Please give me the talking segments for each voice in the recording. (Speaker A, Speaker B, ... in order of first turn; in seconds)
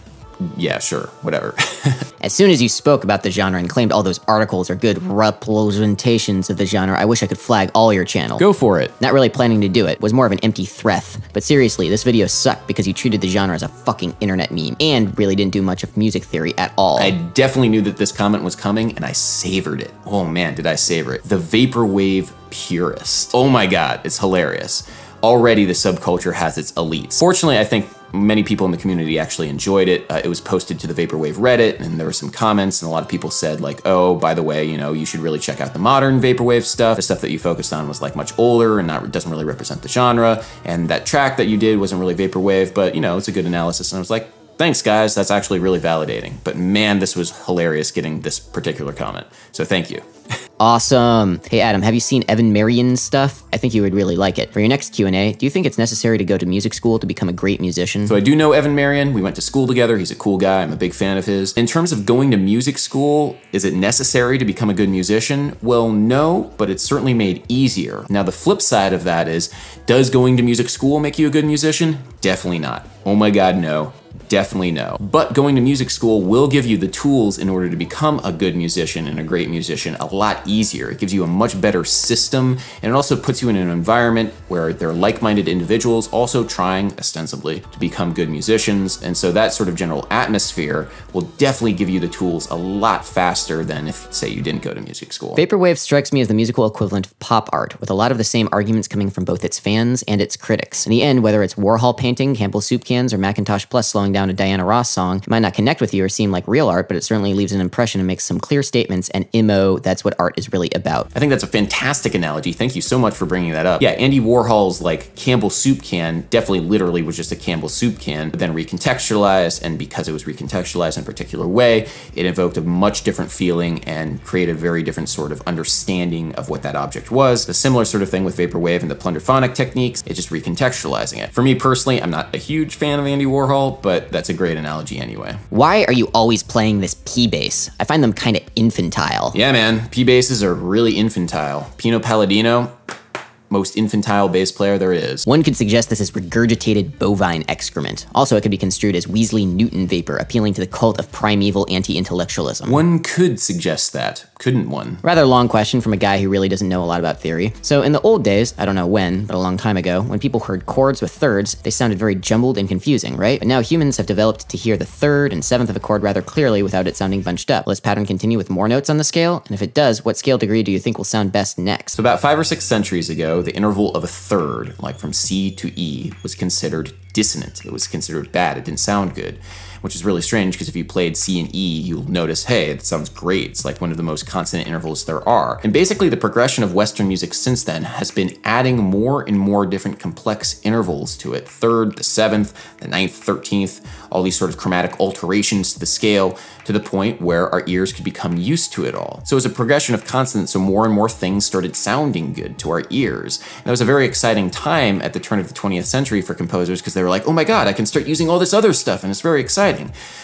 Speaker A: 0.4-2.0, 8.4-8.9, 17.0-50.0, 58.1-95.4, 111.1-135.4, 139.3-142.7, 143.5-145.2, 152.7-155.0, 171.9-209.9
Speaker B: 2.2-8.4, 9.0-17.1, 50.6-58.2, 95.4-111.1, 135.5-139.3, 145.2-152.8, 155.0-172.0